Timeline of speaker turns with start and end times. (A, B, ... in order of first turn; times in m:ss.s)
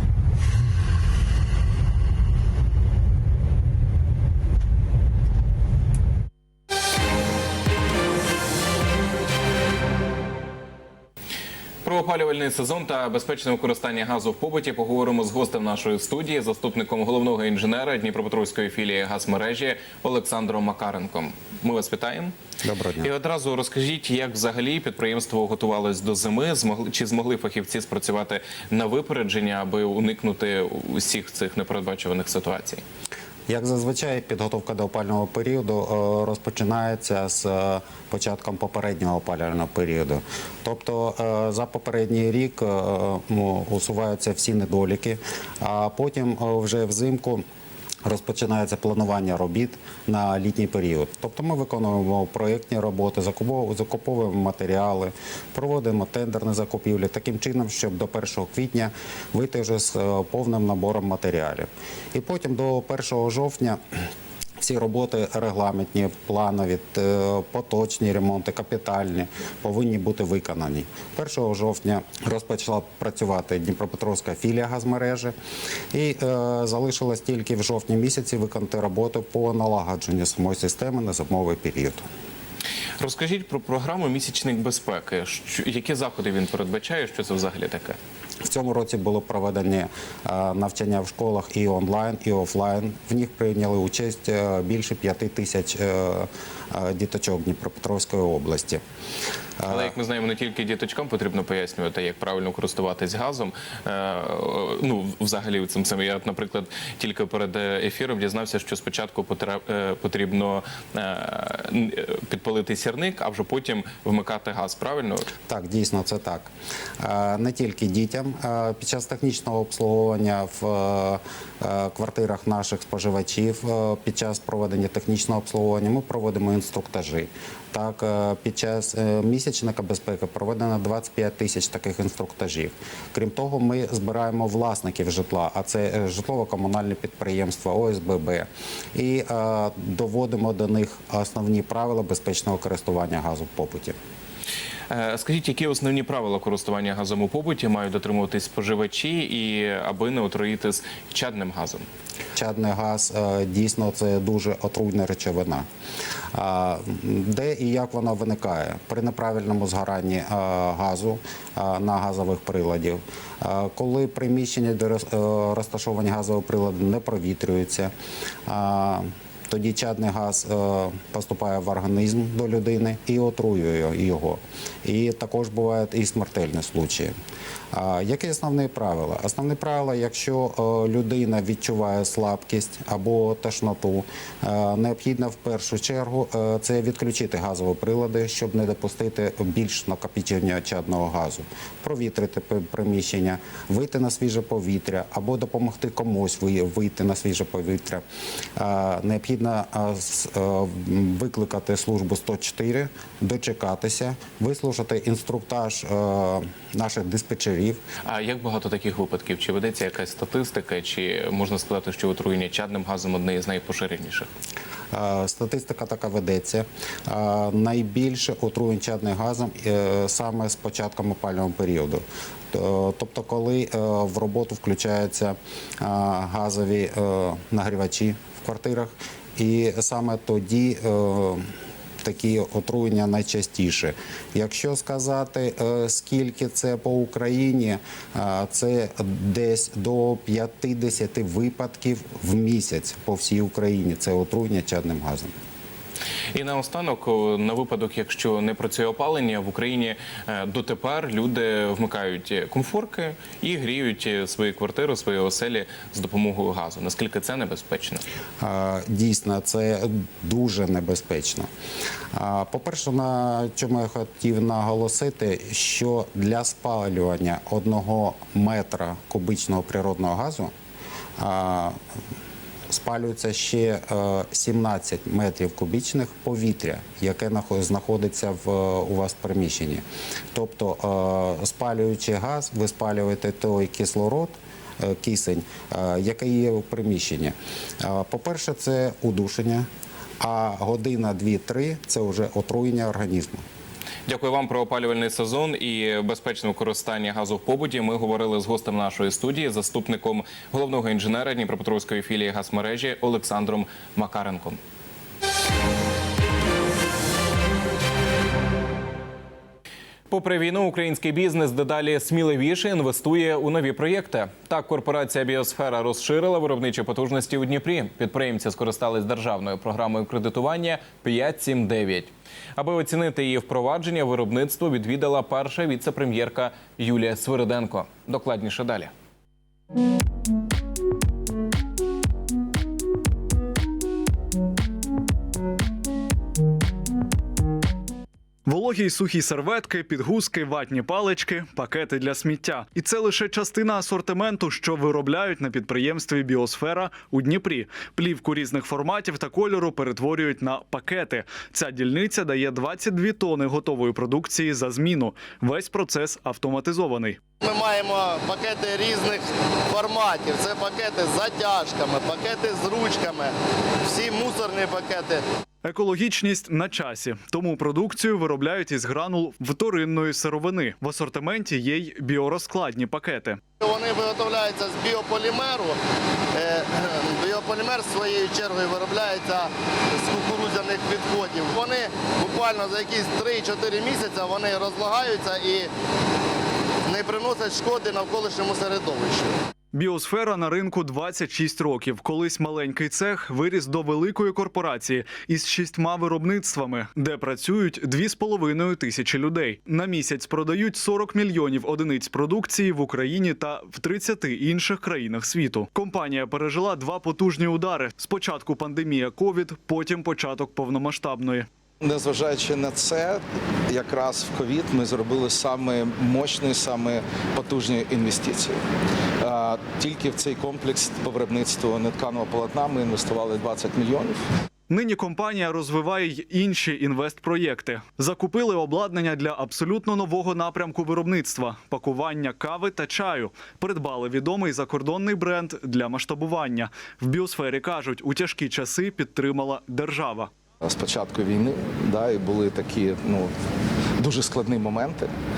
0:11.8-0:22.3 A
0:22.6-0:23.1 B
0:23.0-0:32.8 A
0:33.5-0:47.4 B
0:48.0-1:04.0 B
1:04.6-1:15.3 B
1:15.9-1:22.0 B
1:23.0-1:28.0 A
1:28.4-1:38.8 B
1:39.6-1:39.9 B
1:39.7-1:55.3 A
1:55.5-2:24.0 B
2:24.9-2:31.8 A
2:32.3-2:35.7 B
2:36.3-2:47.9 B
2:48.5-2:57.1 B
2:57.7-3:18.0 B
3:18.6-3:27.8 B
3:28.0-3:34.3 A
3:34.9-3:51.5 B
3:52.0-4:05.3 B
4:06.3-4:18.0 A
4:18.4-4:21.5 B
4:22.1-4:30.5 B
4:31.2-4:31.8 B
4:32.7-4:49.7 B
4:50.2-4:53.4 B
4:54.1-5:04.6 A
5:10.1-5:28.9 A
5:38.5-5:57.2 C
5:57.4-6:03.3 D
6:03.8-6:05.2 D
6:05.6-6:13.4 C
6:13.6-6:15.8 D
6:16.4-6:25.7 D
6:26.9-6:29.3 D
6:29.7-6:51.5 C
6:51.8-6:58.6 E
6:59.2-7:04.2 E
7:04.7-7:20.3 C
7:20.6-7:23.3 E
7:24.0-7:25.1 E